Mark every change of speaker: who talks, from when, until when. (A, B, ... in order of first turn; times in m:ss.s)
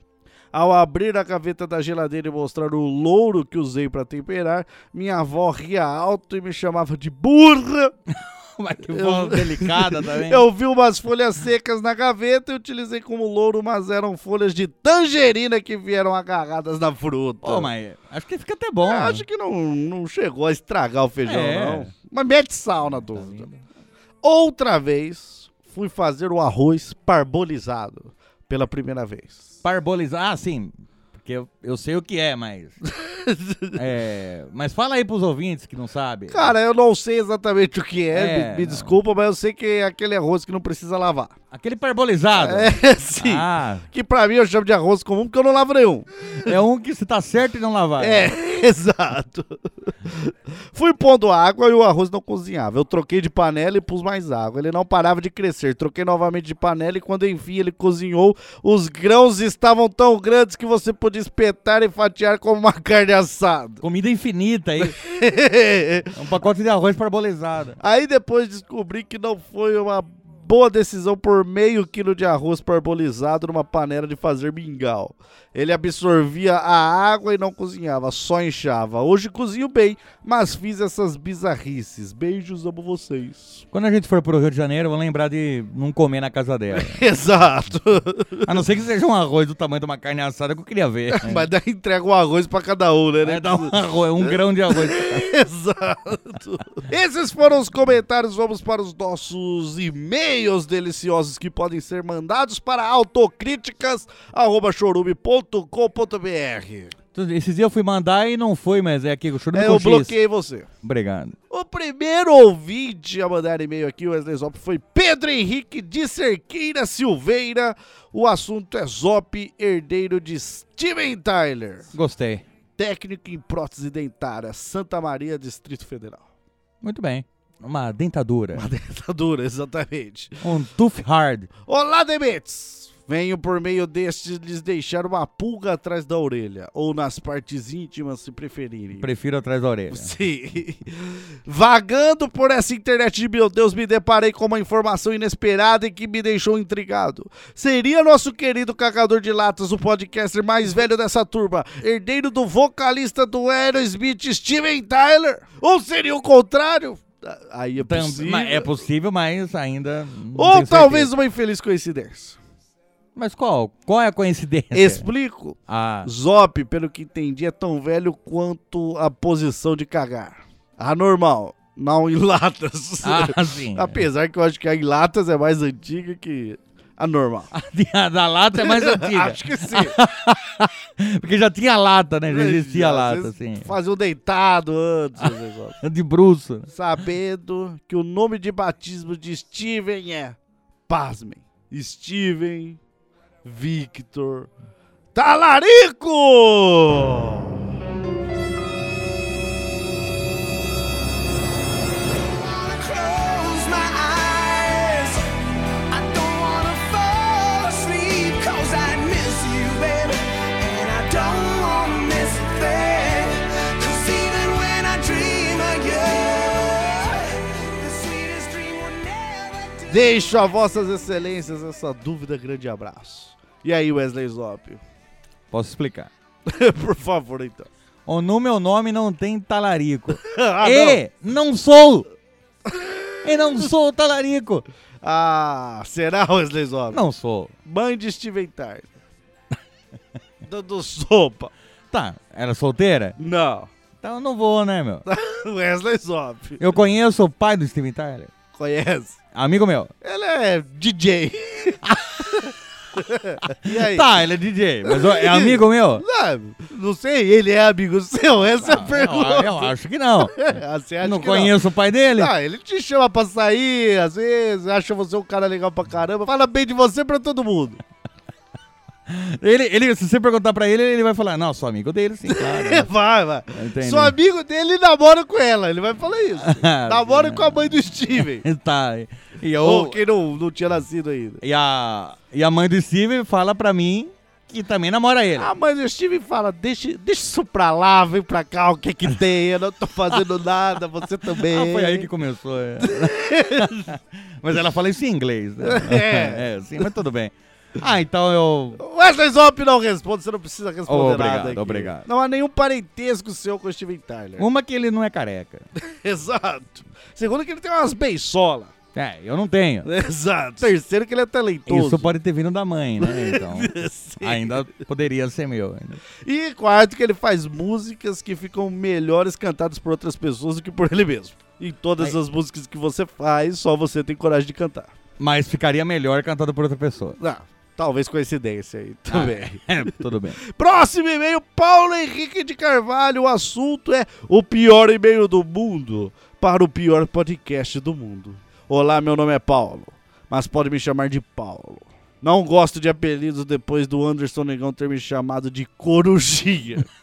0:00.5-0:08.0 A
0:08.1-0:10.4 B
0:08.9-0:17.7 A
0:17.4-0:19.2 B
0:18.9-0:23.5 A
0:21.2-0:21.9 B
0:22.9-0:23.6 B
0:24.2-0:29.5 A
0:29.6-0:32.8 B
0:32.8-0:33.8 A
0:33.8-0:36.5 B
0:36.3-0:41.3 A
0:38.1-0:39.0 B
0:41.5-0:43.9 B
0:42.4-0:46.5 A
0:46.4-0:48.3 B
0:48.0-1:03.8 A
1:03.8-1:05.0 B
1:04.8-1:06.1 A
1:06.2-1:07.8 B
1:07.8-1:23.6 A
1:23.7-1:27.0 B
1:26.7-1:28.5 A
1:28.4-1:31.5 B
1:31.1-1:46.9 A
1:33.2-1:35.3 B
1:47.1-1:50.1 B
1:49.5-1:50.7 A
1:50.8-1:51.4 B
1:51.5-2:01.9 A
2:01.9-2:02.4 B
2:02.8-2:06.2 A
2:06.8-2:08.7 B
2:08.5-2:10.4 A
2:10.4-2:11.5 B
2:11.7-2:19.1 A
2:19.0-2:20.1 B
2:19.9-2:38.7 A
2:37.8-2:41.1 B
2:40.4-2:42.4 A
2:43.2-2:45.1 B
2:44.7-2:57.5 A
2:45.7-2:46.1 B
2:53.0-2:54.0 B
2:57.5-3:03.7 B
2:58.6-3:00.0 A
3:02.3-3:05.8 A
3:05.2-3:06.7 B
3:06.7-3:10.4 A
3:10.9-3:12.8 A
3:13.4-3:14.5 A
3:15.2-3:17.5 A
3:22.4-3:25.2 C
3:25.9-3:40.2 C
3:39.9-3:44.8 A
3:45.5-3:46.1 B
3:46.5-3:47.7 A
3:48.1-3:52.1 B
3:50.2-3:51.0 A
3:52.7-3:53.2 A
3:53.2-3:54.6 B
3:55.0-3:57.0 A
3:56.9-3:57.5 B
3:57.6-3:58.9 A
4:00.4-4:01.5 A
4:01.9-4:03.2 B
4:03.2-4:03.7 A
4:04.0-4:05.1 B
4:05.1-4:06.6 A
4:06.6-4:08.3 B
4:08.5-4:09.2 A
4:09.3-4:09.9 B
4:10.0-4:14.1 A
4:11.9-4:12.2 B
4:13.6-4:16.0 B
4:14.9-4:19.7 A
4:18.6-4:20.4 B
4:20.2-4:21.6 A
4:21.0-4:22.3 B
4:22.2-4:27.8 A
4:29.1-4:32.9 B
4:32.3-4:38.4 A
4:33.5-4:34.2 B
4:36.4-4:40.0 B
4:39.6-4:41.4 A
4:41.4-4:45.5 B
4:45.4-4:52.1 A
4:51.3-4:58.8 B
4:52.8-4:53.9 A
4:55.6-4:56.4 A
4:58.8-5:04.4 A
5:00.9-5:02.1 B
5:04.4-5:05.7 B
5:05.8-5:08.7 A
5:09.0-5:09.9 B
5:09.8-5:12.2 A
5:11.7-5:16.0 B
5:13.0-5:14.6 A
5:16.2-5:24.9 A
5:25.2-5:27.2 B
5:27.2-5:29.9 A
5:29.1-5:30.4 B
5:30.4-5:46.9 A